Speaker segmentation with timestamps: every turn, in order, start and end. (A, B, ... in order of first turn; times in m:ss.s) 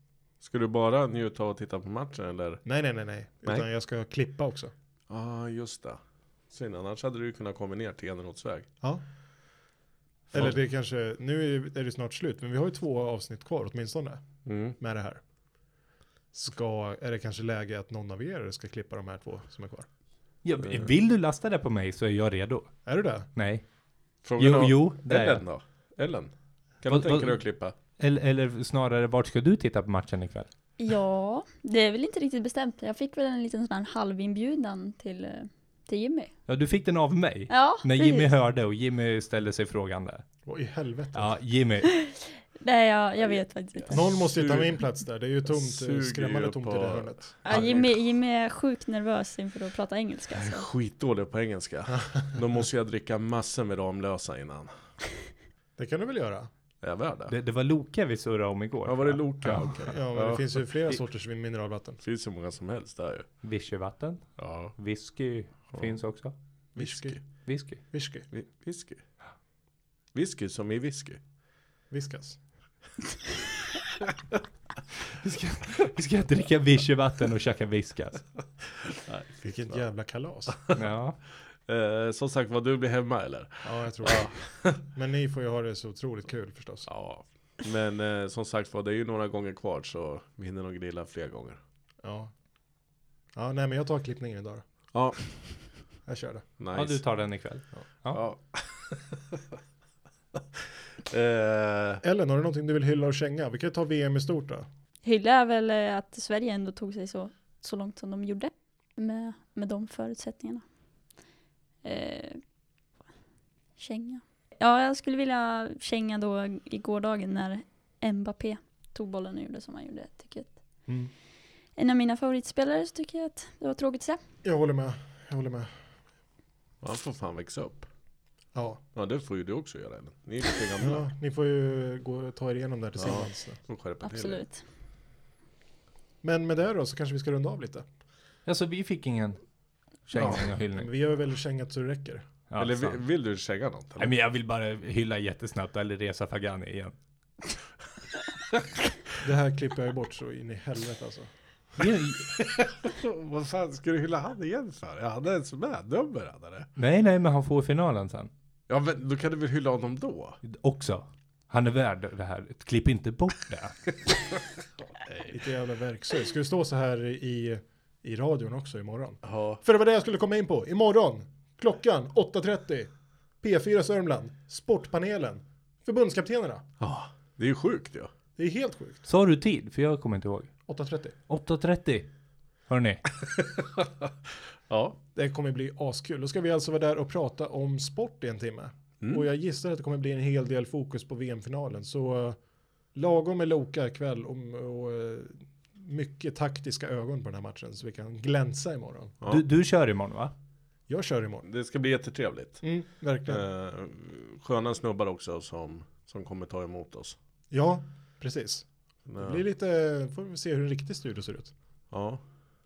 0:00.4-0:02.6 A
0:02.6-0:04.7 B
0:05.1-0:08.7 A
0:10.3-0:15.2 B
0:14.4-0:14.8 A
0:16.3-0:19.9 B
0:20.4-0:22.7 C
0:20.6-0:20.9 A
0:22.9-0:23.3 B
0:23.3-0:23.6 C
0:24.2-0:27.8 A
0:24.4-0:25.4 C
0:26.9-0:27.4 C
0:28.0-0:30.5 C
0:30.8-0:36.3 D
0:36.5-0:40.2 C
0:37.5-0:38.3 D
0:40.4-0:41.3 B
0:41.1-0:41.9 C
0:41.8-0:44.2 D
0:43.9-0:47.7 B
0:43.9-0:44.8 A
0:45.4-0:47.9 A
0:47.4-0:50.6 D
0:50.3-0:54.8 A
0:55.8-0:56.5 B
0:56.8-0:57.3 A
0:57.3-0:59.8 C
0:58.8-1:01.0 A
0:59.9-1:02.0 B
1:02.0-1:03.3 A
1:03.4-1:06.3 C
1:04.4-1:04.7 A
1:06.8-1:07.2 A
1:06.8-1:08.2 B
1:07.4-1:07.8 C
1:08.3-1:09.0 A
1:10.1-1:11.2 A
1:11.9-1:12.4 B
1:15.2-1:18.3 C
1:19.0-1:19.8 A
1:19.4-1:20.6 B
1:20.5-1:20.8 A
1:20.7-1:21.2 C
1:21.7-1:24.8 A
1:23.6-1:26.9 B
1:26.9-1:31.6 A
1:32.0-1:32.3 B
1:33.3-1:34.6 B
1:34.9-1:35.2 A
1:36.0-1:36.4 B
1:36.6-1:37.0 A
1:36.7-1:38.2 C
1:38.1-1:39.4 A
1:40.4-1:42.0 A
1:42.0-1:44.7 B
1:45.0-1:50.6 D
1:51.8-1:52.4 D
1:53.8-2:00.6 D
2:00.9-2:01.1 B
2:01.8-2:04.2 D
2:04.4-2:05.7 B
2:06.8-2:07.9 A
2:08.5-2:08.8 B
2:08.9-2:11.1 A
2:10.8-2:13.6 B
2:13.0-2:14.4 A
2:14.0-2:14.6 D
2:16.2-2:17.8 B
2:18.4-2:19.4 C
2:20.1-2:20.9 C
2:20.1-2:20.5 A
2:20.6-2:22.2 B
2:22.5-2:23.0 C
2:22.6-2:24.1 A
2:24.0-2:26.9 C
2:29.2-2:31.3 B
2:31.8-2:32.3 C
2:32.4-2:36.7 A
2:36.8-2:38.3 C
2:38.7-2:40.4 A
2:40.4-2:44.0 C
2:45.3-2:56.6 B
2:49.2-2:49.6 A
2:56.8-2:58.1 A
2:58.4-2:59.0 B
2:59.0-3:00.5 C
3:00.7-3:01.2 B
3:01.3-3:02.1 C
3:02.7-3:03.0 C
3:03.2-3:04.1 A
3:04.7-3:05.0 A
3:05.1-3:12.4 B
3:09.0-3:09.2 A
3:12.9-3:19.2 B
3:19.3-3:20.3 C
3:20.9-3:21.4 B
3:21.4-3:22.6 A
3:22.6-3:23.4 B
3:23.3-3:27.2 A
3:27.5-3:28.7 B
3:29.1-3:29.4 A
3:29.2-3:31.5 B
3:31.9-3:32.2 A